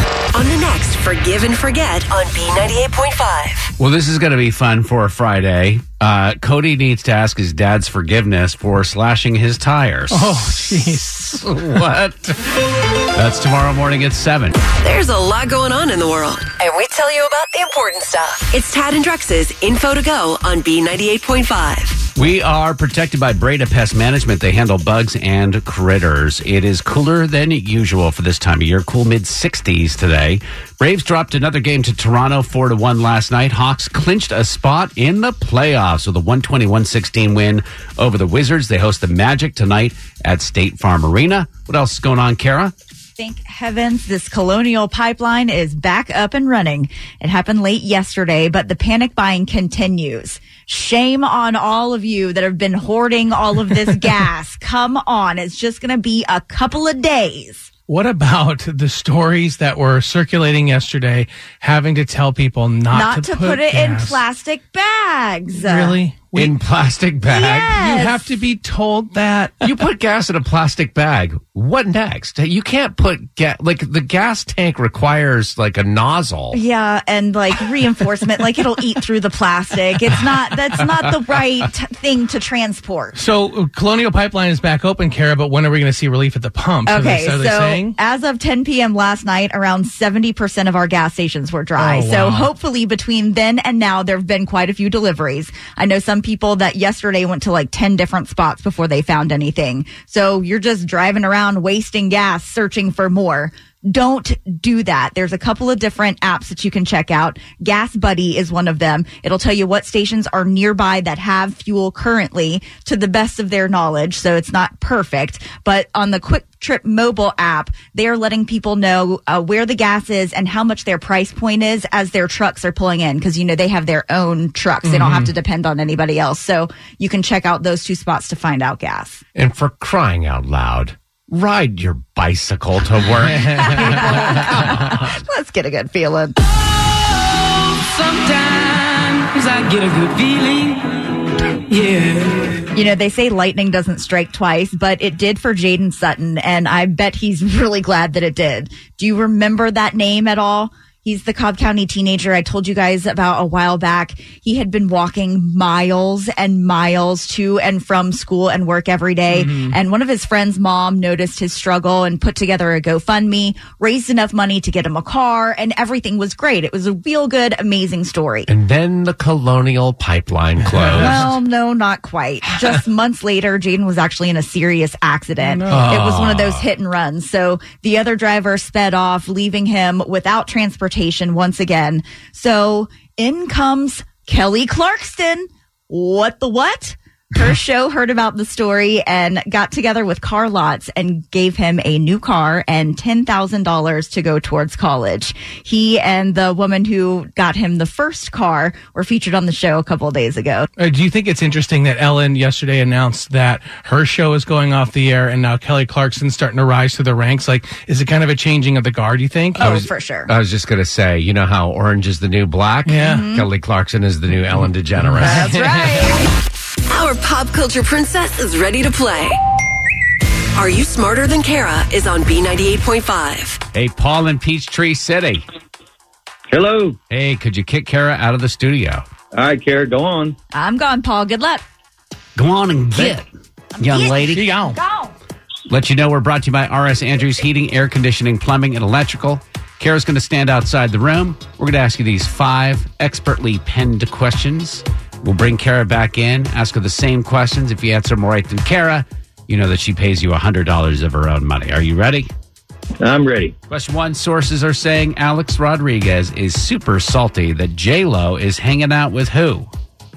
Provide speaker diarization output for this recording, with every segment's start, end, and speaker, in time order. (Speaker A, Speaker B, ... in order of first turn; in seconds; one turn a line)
Speaker A: 0.3-3.7
Speaker B: 3.8-12.5
Speaker C: 10.1-11.3
Speaker B: 13.1-14.6
Speaker A: 14.7-22.1
Speaker B: 22.1-42.7
Speaker D: 43.2-57.7
Speaker C: 57.9-64.2
Speaker D: 62.9-66.0
Speaker C: 65.5-66.6
Speaker B: 66.3-67.7
Speaker D: 67.3-68.3
Speaker C: 67.7-69.6
Speaker B: 69.6-76.6
Speaker D: 76.5-83.2
Speaker C: 83.2-88.0
Speaker D: 86.9-129.2
Speaker C: 91.8-92.5
Speaker C: 124.8-125.3
Speaker B: 129.3-134.9
Speaker C: 133.3-134.5
Speaker D: 133.6-136.4
Speaker E: 137.7-140.9
Speaker E: 141.7-142.7
Speaker D: 142.7-168.5
Speaker C: 159.3-159.8
Speaker B: 168.5-171.2
Speaker C: 170.8-171.3
Speaker D: 170.9-200.7
Speaker C: 175.4-176.1
Speaker B: 175.7-176.7
Speaker C: 200.8-209.7
Speaker D: 209.6-210.3
Speaker B: 209.6-215.6
Speaker C: 212.9-213.3
Speaker D: 212.9-213.5
Speaker C: 215.0-216.1
Speaker D: 215.2-216.3
Speaker A: 216.9-219.4
Speaker A: 220.6-223.6
Speaker B: 223.7-225.5
Speaker F: 226.5-227.0
Speaker B: 227.1-229.1
Speaker F: 229.3-230.3
Speaker D: 230.5-231.6
Speaker B: 232.4-233.3
Speaker D: 233.8-235.1
Speaker B: 233.8-234.5
Speaker C: 234.3-234.8
Speaker B: 235.7-252.3
Speaker F: 253.0-253.5
Speaker B: 253.7-259.7